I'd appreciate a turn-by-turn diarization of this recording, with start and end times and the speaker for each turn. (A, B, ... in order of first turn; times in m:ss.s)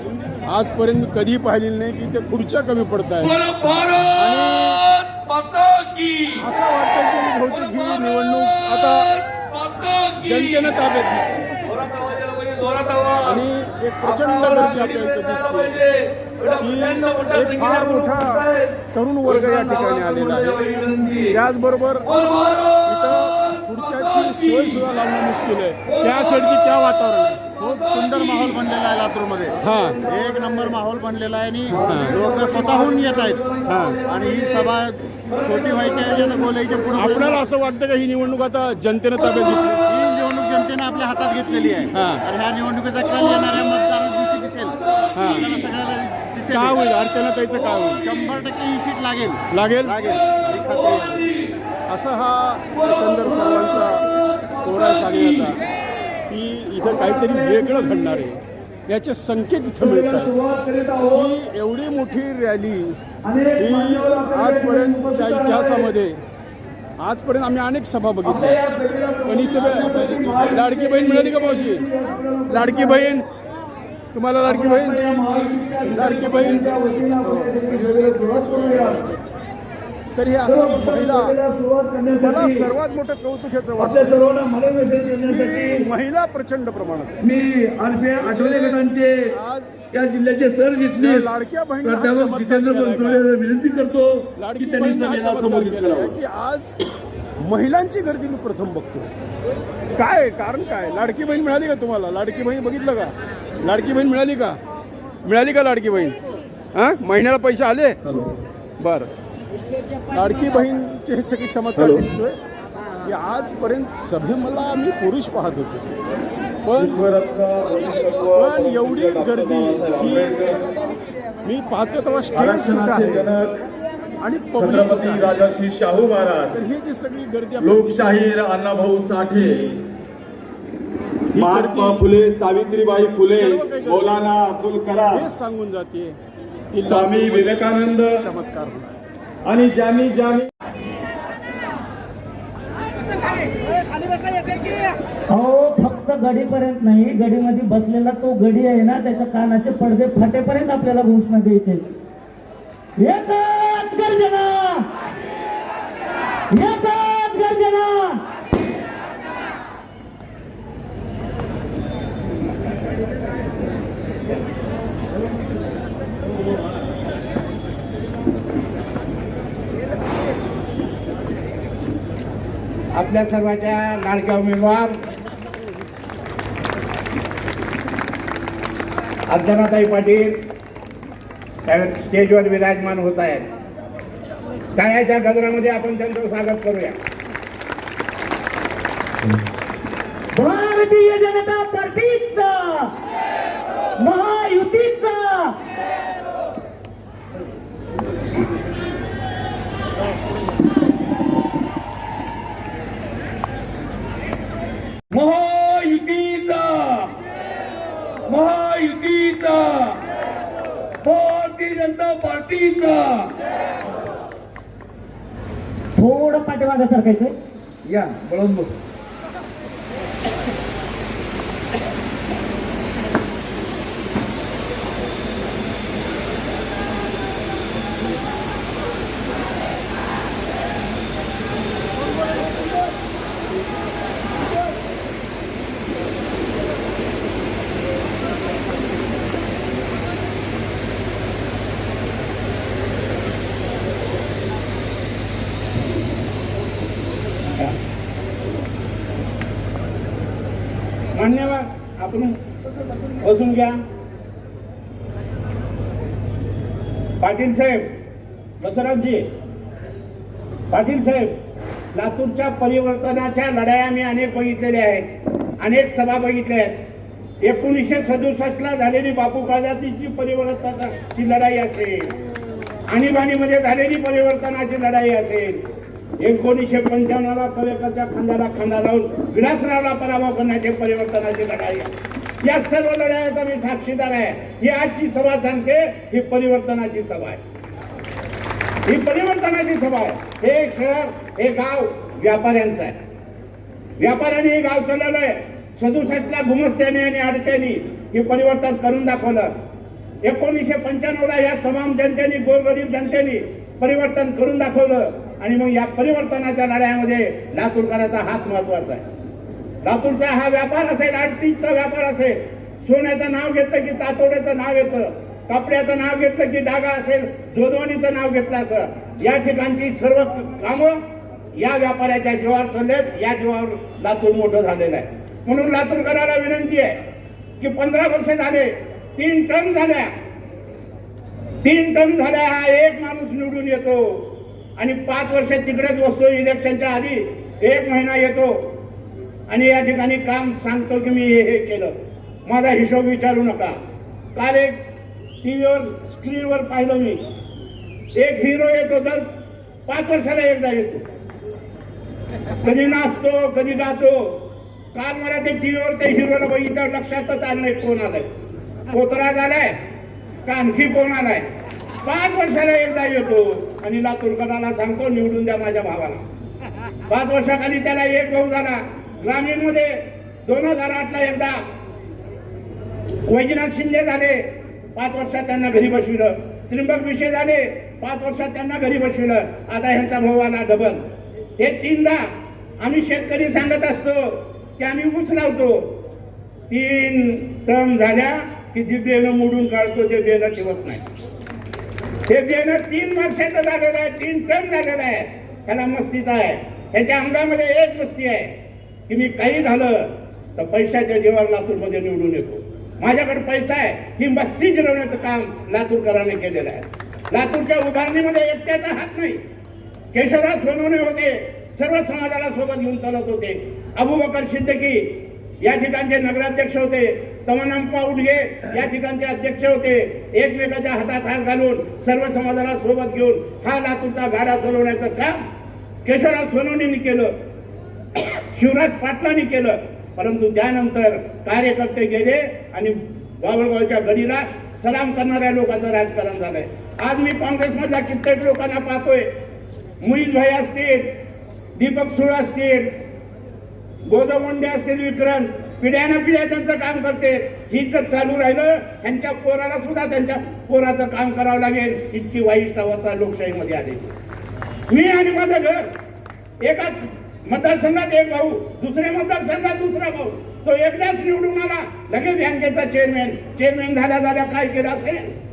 0:00.4-0:03.4 A
0:03.2-0:06.4 B
0:04.1-0:04.8 A
0:06.4-0:09.1 A
0:07.4-0:13.4 B
0:10.2-0:11.5 A
0:13.2-0:15.8 A
0:14.0-0:21.4 B
0:16.6-0:20.6 A
0:21.3-0:22.1 A
0:22.0-0:24.9 B
0:22.8-0:27.5 A
0:25.8-0:26.6 B
0:27.5-0:28.6 B
0:27.6-0:33.4 C
0:29.6-0:30.0 A
0:29.7-0:30.6 B
0:31.7-0:34.7 B
0:31.8-0:32.2 A
0:33.6-0:34.0 A
0:34.0-0:37.4 C
0:35.3-0:37.1 B
0:36.9-0:39.8 A
0:39.8-0:46.8 C
0:41.9-0:42.2 A
0:43.0-0:43.9 B
0:44.6-0:45.4 B
0:45.1-0:45.5 A
0:46.5-0:48.0 A
0:48.0-0:48.3 B
0:48.0-0:51.2 C
0:49.5-0:50.0 A
0:49.9-0:51.5 B
0:51.9-0:54.0 A
0:52.7-0:55.6 B
0:54.6-0:55.6 A
0:56.3-1:00.3 A
0:56.9-0:58.2 B
0:59.8-1:01.3 B
1:01.0-1:02.9 A
1:03.3-1:05.9 B
1:03.6-1:06.2 A
1:07.0-1:08.6 A
1:08.2-1:13.0 B
1:09.2-1:11.8 A
1:12.5-1:13.2 A
1:14.1-1:15.0 A
1:14.5-1:19.0 B
1:15.8-1:17.8 A
1:20.2-1:21.4 A
1:20.5-1:22.7 B
1:22.2-1:24.1 A
1:23.8-1:25.8 B
1:25.2-1:27.2 A
1:27.2-1:29.2 B
1:28.2-1:29.8 A
1:29.9-1:31.3 B
1:30.9-1:33.2 A
1:31.8-1:36.2 B
1:34.4-1:36.7 A
1:37.4-1:39.1 A
1:39.9-1:44.6 A
1:45.2-1:46.2 A
1:46.7-1:48.0 A
1:48.8-1:49.1 A
1:50.1-1:52.3 A
1:53.0-1:55.9 A
1:56.6-1:57.0 A
1:56.7-2:00.6 D
1:58.3-2:00.8 A
2:01.4-2:03.3 A
2:02.3-2:03.6 D
2:04.2-2:05.4 A
2:04.6-2:06.6 D
2:06.5-2:08.3 A
2:07.6-2:09.8 D
2:11.3-2:12.1 A
2:11.3-2:15.3 D
2:13.3-2:14.2 A
2:15.1-2:16.2 A
2:16.7-2:18.9 A
2:16.9-2:18.2 D
2:19.4-2:20.5 D
2:25.3-2:31.8 E
2:33.0-2:34.8 E
2:36.5-2:38.2 E
2:52.9-2:55.0 F
2:59.3-3:00.3 F
3:01.6-3:03.4 F
3:04.7-3:07.0 F
3:10.3-3:12.9 E
3:14.0-3:15.5 E
3:25.1-3:27.1 B
3:28.3-3:30.0 B
3:31.0-3:33.3 B
3:35.9-3:37.3 E
3:37.8-3:38.7 B
4:11.1-4:12.4 F
4:13.2-4:13.8 F
4:17.2-4:17.9 F
4:18.6-4:19.2 F
4:20.7-4:21.3 F
4:21.9-4:25.1 F
4:25.6-4:26.7 F
4:27.4-4:32.1 F
4:32.9-4:35.6 F
4:36.2-4:41.9 F
4:42.4-4:47.4 F
4:48.8-4:52.9 F
4:54.0-4:59.5 F
5:00.2-5:09.0 F
5:09.8-5:21.0 F
5:21.5-5:27.0 F
5:27.6-5:30.1 F
5:31.6-5:38.7 F
5:39.5-5:41.9 F
5:42.4-5:43.8 F
5:44.3-5:44.8 F
5:45.4-5:47.2 F
5:48.1-5:49.2 F
5:49.9-5:51.0 F
5:52.6-5:54.4 F
5:54.9-5:58.3 F
5:58.9-5:59.8 F
6:00.4-6:01.5 F
6:02.0-6:06.2 F
6:07.1-6:11.6 F
6:13.2-6:14.4 F
6:14.9-6:21.0 F
6:21.6-6:22.2 F
6:22.8-6:25.9 F
6:26.7-6:31.0 F
6:32.3-6:38.5 F
6:39.1-6:49.4 F
6:50.1-6:55.1 F
6:55.6-7:05.3 F
7:06.0-7:07.3 F
7:08.5-7:19.3 F
7:20.0-7:21.0 F
7:21.8-7:22.9 F
7:24.0-7:34.1 F
7:34.9-7:35.9 F
7:36.6-7:45.3 F